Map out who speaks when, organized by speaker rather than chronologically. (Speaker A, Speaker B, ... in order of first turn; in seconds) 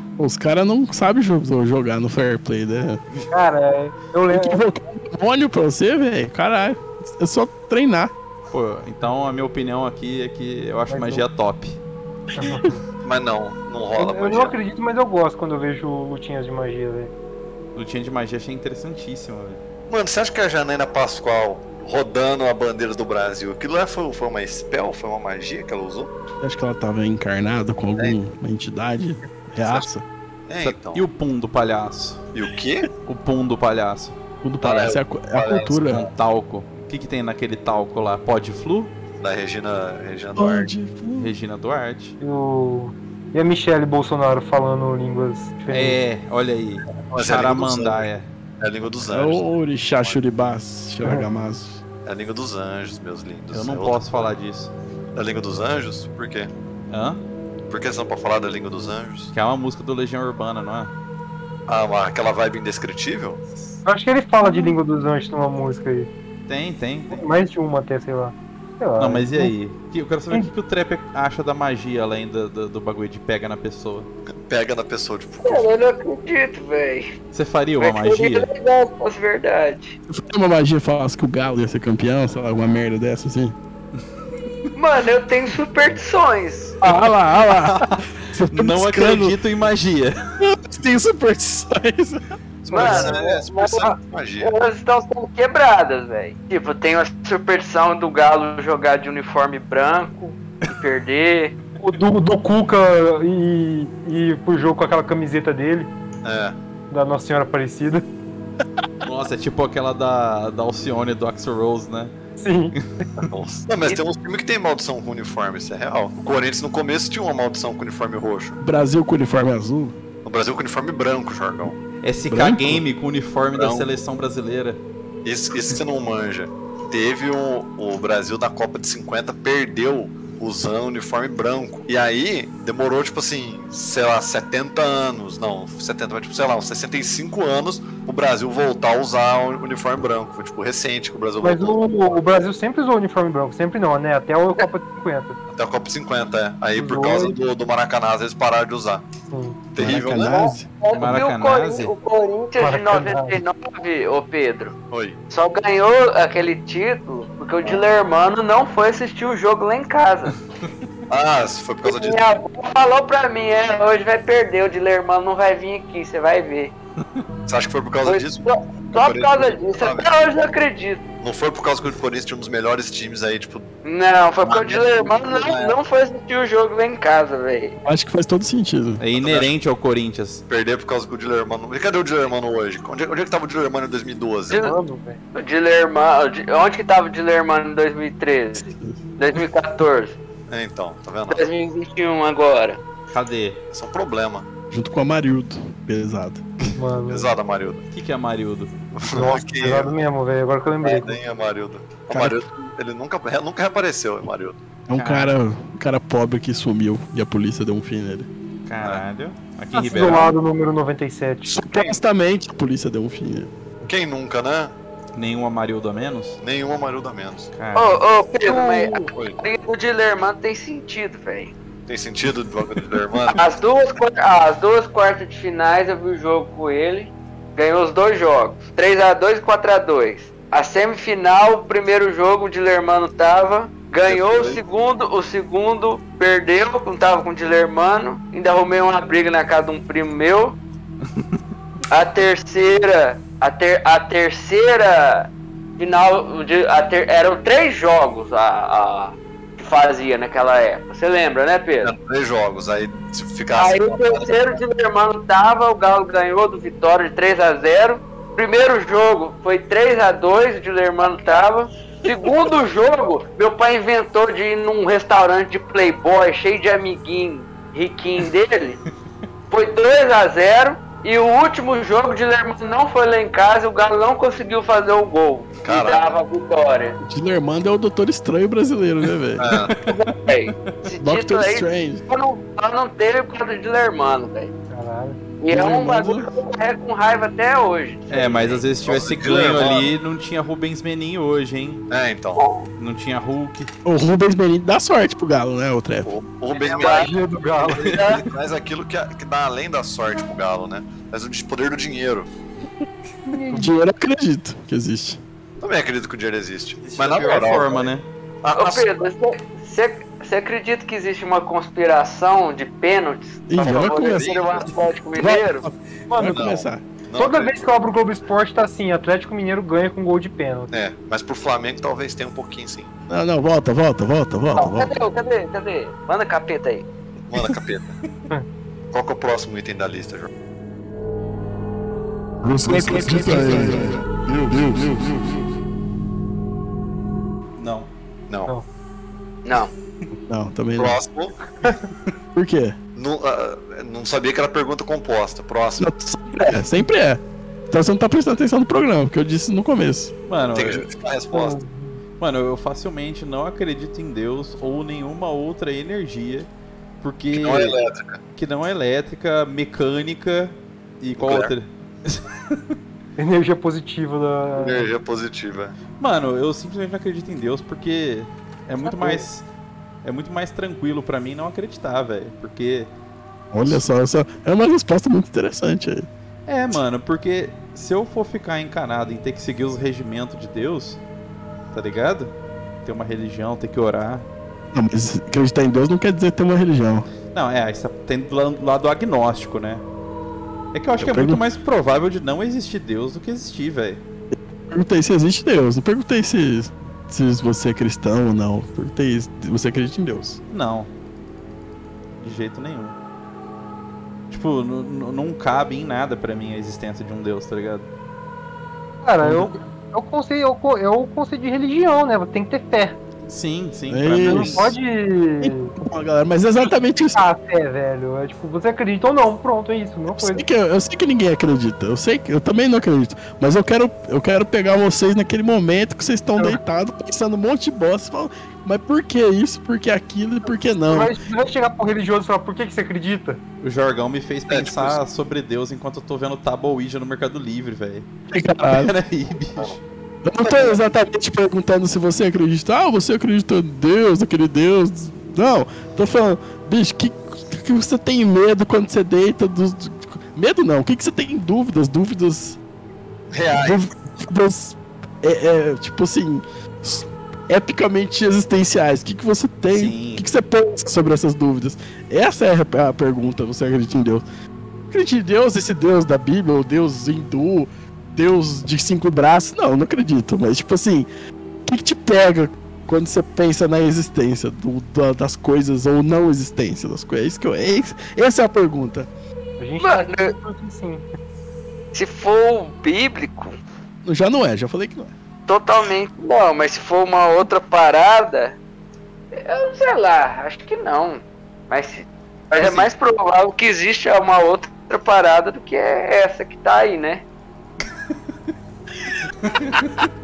Speaker A: 0.2-3.0, 4.3-8.1, 12.4-12.7, 26.4-30.1, 34.4-36.0, 40.4-41.3, 49.1-51.8, 80.1-83.5, 86.8-89.3, 90.4-92.3, 118.6-120.0, 122.3-122.8, 149.8-150.7, 177.8-179.0, 194.7-196.4, 202.1-202.4, 204.9-208.3, 211.6-213.5, 277.0-279.4, 281.0-282.0, 285.5-286.3, 293.8-296.1, 303.5-305.2, 313.5-316.8, 323.1-324.9, 332.6-333.9, 340.3-341.0, 342.3-342.8, 345.8-350.1, 373.5-376.1, 384.7-387.1, 391.0-391.4, 394.7-400.4, 413.9-414.7, 415.4-417.2, 420.1-431.1, 438.3-438.9, 440.2-452.6, 453.5-464.2, 464.9-471.1, 471.6-479.1, 484.1-485.1
Speaker B: 3.3-4.6, 10.9-11.2, 12.4-12.8, 14.0-17.1, 42.2-46.0, 63.8-66.1, 67.1-69.5, 92.8-93.2, 101.8-105.9, 106.9-108.0, 112.4-112.7, 141.4-145.4, 146.8-147.4, 149.3-149.6, 152.6-153.4, 184.6-185.2, 196.8-197.3, 199.1-201.2, 209.8-211.9, 218.4-219.1, 284.7-285.2, 296.9-298.0, 303.3-303.7, 316.1-316.6, 317.2-320.7, 332.6-333.8, 351.3-351.9, 363.2-364.9, 368.8-369.2, 409.0-413.0, 414.3-415.7, 417.1-420.4, 430.9-433.4, 479.6-481.0
Speaker C: 8.5-11.8, 17.7-19.6, 30.6-32.2, 33.0-34.1, 35.9-38.9, 41.2-42.1, 45.7-48.3, 53.5-54.7, 56.9-57.2, 59.3-60.9, 66.5-67.2, 69.0-74.1, 77.3-78.5, 86.8-90.2, 92.6-93.1, 109.0-112.1, 122.0-124.8, 150.9-151.9, 179.0-180.4, 193.1-193.6, 197.9-198.7, 204.9-205.3, 208.7-210.4, 215.1-216.4, 217.6-218.0, 279.5-279.8, 280.3-280.7, 288.1-291.8, 292.8-293.7, 306.8-308.1, 337.6-337.9, 350.3-350.9, 352.2-356.5, 357.0-357.8, 358.4-362.6, 366.0-369.4, 370.0-372.9, 376.5-381.0, 381.7-382.3, 382.8-384.3, 387.3-389.8, 390.7-394.0, 400.5-400.9, 402.2-402.9, 404.3-407.9, 413.3-414.7, 433.6-438.1, 438.6-439.8, 459.7-460.3, 499.4-500.1
Speaker D: 13.0-14.6, 19.9-26.1, 30.5-31.1, 32.3-32.9, 34.6-36.0, 39.2-40.7, 47.1-48.1, 48.6-49.4, 52.0-54.3, 55.1-56.5, 57.7-59.3, 61.7-63.4, 74.5-75.7, 92.7-94.5, 106.2-106.5, 113.2-118.6, 120.2-121.8, 123.5-123.9, 125.2-142.2, 145.5-149.0, 149.7-150.5, 154.9-155.2, 161.1-162.2, 167.5-170.1, 171.2-173.7, 174.4-175.8, 179.2-179.5, 180.5-184.6, 190.5-191.4, 193.7-194.4, 197.1-197.8, 198.9-199.9, 200.8-204.6, 211.5-211.9, 213.8-214.7, 216.4-217.5, 219.1-219.4, 221.9-223.5, 234.0-234.6, 251.8-254.6, 275.6-276.1, 279.4-279.7, 288.9-289.9, 291.9-292.4, 296.1-302.3, 305.6-307.9, 308.4-308.9, 313.6-314.7, 316.2-317.7, 320.7-322.9, 327.3-328.0, 328.9-330.3, 338.3-338.5, 340.8-341.4, 342.9-345.9, 350.6-351.6, 357.3-358.2, 361.2-361.5, 364.6-365.8, 434.5-435.0, 453.3-453.8, 492.6-492.9
Speaker E: 75.4-77.1, 77.8-80.0, 84.7-86.8, 92.7-93.9, 94.4-101.5, 150.2-154.7, 155.3-160.3, 161.8-166.7, 168.0-171.0, 173.8-177.8, 184.5-184.8, 185.3-190.2, 191.3-192.8, 217.7-221.5, 223.3-240.6, 241.9-251.9, 253.6-268.8, 269.5-277.0, 279.8-284.5, 285.4-288.6, 292.4-292.6, 296.5-297.1, 297.8-298.3, 308.6-315.6, 324.6-326.9, 339.4-339.7, 479.8-480.3, 481.9-483.6, 485.5-488.6, 489.3-497.2
Speaker F: 332.4-335.3